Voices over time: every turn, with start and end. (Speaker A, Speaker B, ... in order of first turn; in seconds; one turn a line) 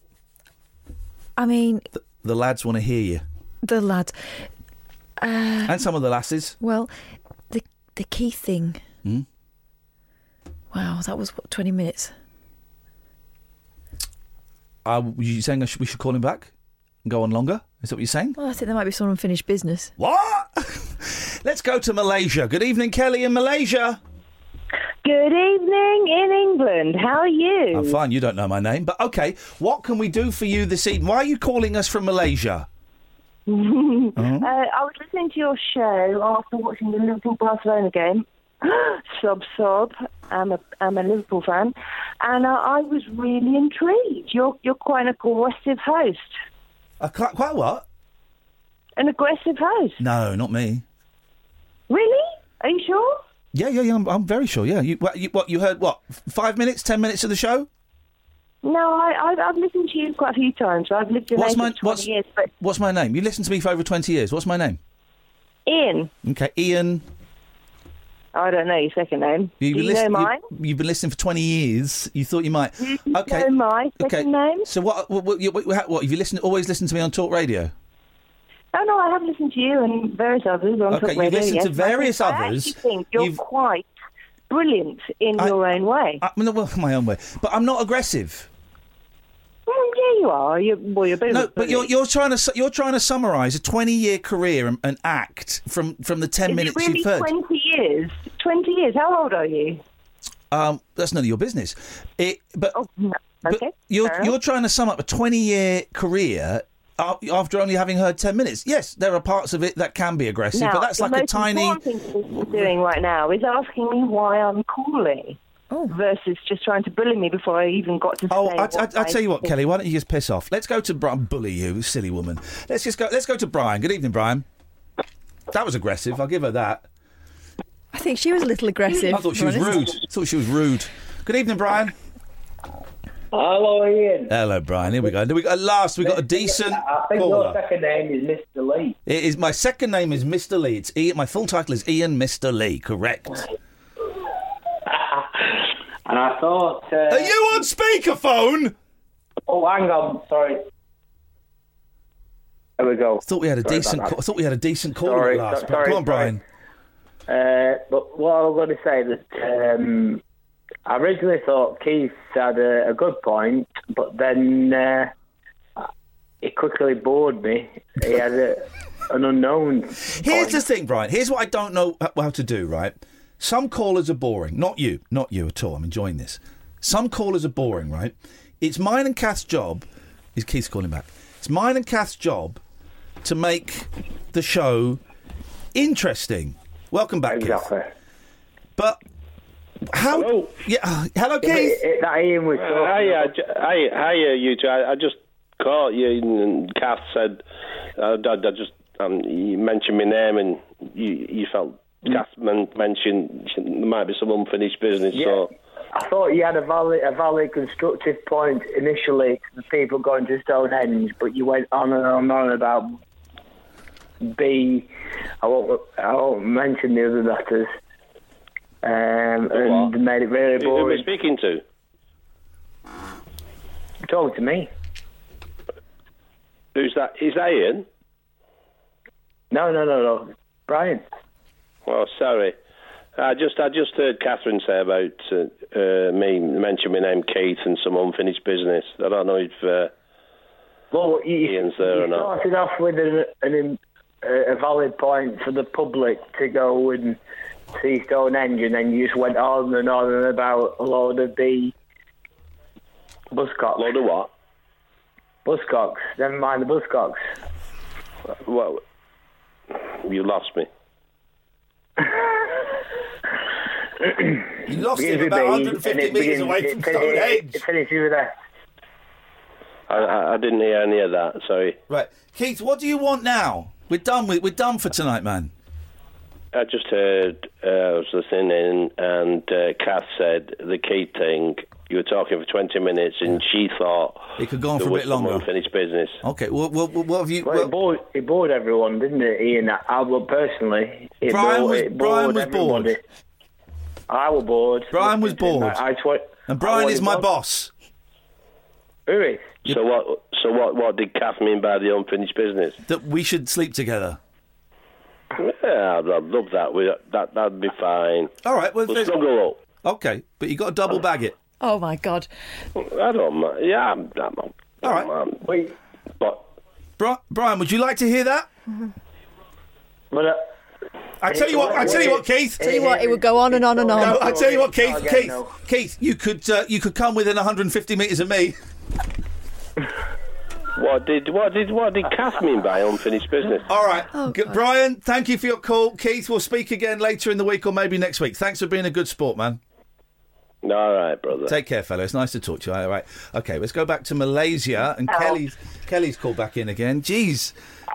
Speaker A: 1.4-1.9
Speaker B: 1.9-3.2
Speaker A: 3.6-4.2
Speaker A: 5.2-5.9
Speaker B: 5.7-6.6
Speaker A: 6.6-6.9
Speaker A: 7.5-8.8
Speaker A: 10.7-12.1
Speaker B: 14.8-16.5
Speaker B: 17.1-18.4
Speaker A: 18.4-19.9
Speaker B: 20.0-24.0
Speaker C: 25.0-28.0
Speaker B: 27.7-32.7
Speaker C: 33.5-46.4
Speaker B: 34.2-34.5
Speaker B: 47.0-47.9
Speaker C: 49.0-50.0
Speaker B: 50.0-50.9
Speaker C: 51.9-53.2
Speaker B: 53.5-57.7
Speaker C: 58.6-62.5
Speaker B: 61.3-62.1
Speaker B: 62.6-64.8
Speaker C: 65.7-66.1
Speaker B: 66.2-67.0
Speaker C: 68.3-70.4
Speaker B: 69.6-77.7
Speaker C: 72.8-74.7
Speaker C: 78.7-83.9
Speaker B: 80.9-83.4
Speaker C: 84.5-86.2
Speaker B: 86.2-88.5
Speaker C: 89.7-91.9
Speaker B: 91.3-97.3
Speaker C: 96.5-99.8
Speaker B: 100.5-102.8
Speaker C: 102.7-104.3
Speaker B: 103.5-111.8
Speaker C: 110.5-115.4
Speaker B: 112.4-112.7
Speaker C: 115.9-119.5
Speaker B: 118.3-124.5
Speaker B: 125.5-126.9
Speaker A: 127.9-129.9
Speaker B: 129.1-131.9
Speaker D: 133.3-134.3
Speaker B: 134.3-137.6
Speaker D: 136.0-139.0
Speaker B: 139.1-143.4
Speaker D: 144.9-147.6
Speaker B: 147.1-148.8
Speaker D: 149.5-150.6
Speaker D: 152.8-154.2
Speaker B: 153.2-156.4
Speaker D: 155.0-156.4
Speaker D: 157.3-160.2
Speaker D: 160.9-165.1
Speaker D: 166.4-170.6
Speaker B: 170.2-182.6
Speaker B: 183.2-185.0
Speaker B: 185.7-187.7
Speaker D: 187.3-187.9
Speaker B: 189.9-191.8
Speaker E: 190.1-190.5
Speaker D: 191.4-193.3
Speaker E: 192.6-197.4
Speaker E: 198.0-205.5
Speaker D: 205.1-212.9
Speaker D: 214.2-217.7
Speaker D: 218.8-221.1
Speaker E: 219.5-219.9
Speaker E: 220.6-221.6
Speaker D: 224.1-224.7
Speaker E: 226.8-227.9
Speaker D: 229.5-231.0
Speaker E: 231.9-232.6
Speaker E: 233.2-239.9
Speaker D: 240.9-247.2
Speaker E: 241.4-242.3
Speaker D: 247.7-251.7
Speaker D: 253.3-253.9
Speaker E: 253.8-254.3
Speaker D: 255.4-257.2
Speaker E: 258.3-258.8
Speaker E: 259.9-260.7
Speaker D: 262.0-262.5
Speaker D: 264.0-268.3
Speaker B: 264.7-267.6
Speaker E: 269.9-271.8
Speaker B: 271.9-275.5
Speaker E: 276.5-286.2
Speaker B: 284.4-285.5
Speaker B: 286.2-287.7
Speaker D: 287.4-293.0
Speaker B: 291.3-292.9
Speaker D: 294.1-297.3
Speaker B: 294.9-295.8
Speaker B: 296.5-297.7
Speaker D: 299.1-299.6
Speaker E: 299.6-302.8
Speaker B: 302.9-304.2
Speaker E: 305.4-308.3
Speaker B: 308.4-309.2
Speaker E: 308.9-309.6
Speaker B: 309.8-311.4
Speaker A: 311.6-312.3
Speaker E: 312.8-315.4
Speaker B: 314.8-315.1
Speaker D: 315.4-315.7
Speaker B: 317.0-318.5
Speaker D: 320.1-320.4
Speaker B: 321.2-322.8
Speaker D: 321.2-325.6
Speaker A: 322.6-324.4
Speaker B: 323.9-328.6
Speaker E: 330.8-333.7
Speaker B: 333.7-339.6
Speaker A: 334.1-334.6
Speaker E: 340.6-341.5
Speaker B: 341.5-347.6
Speaker C: 345.1-345.4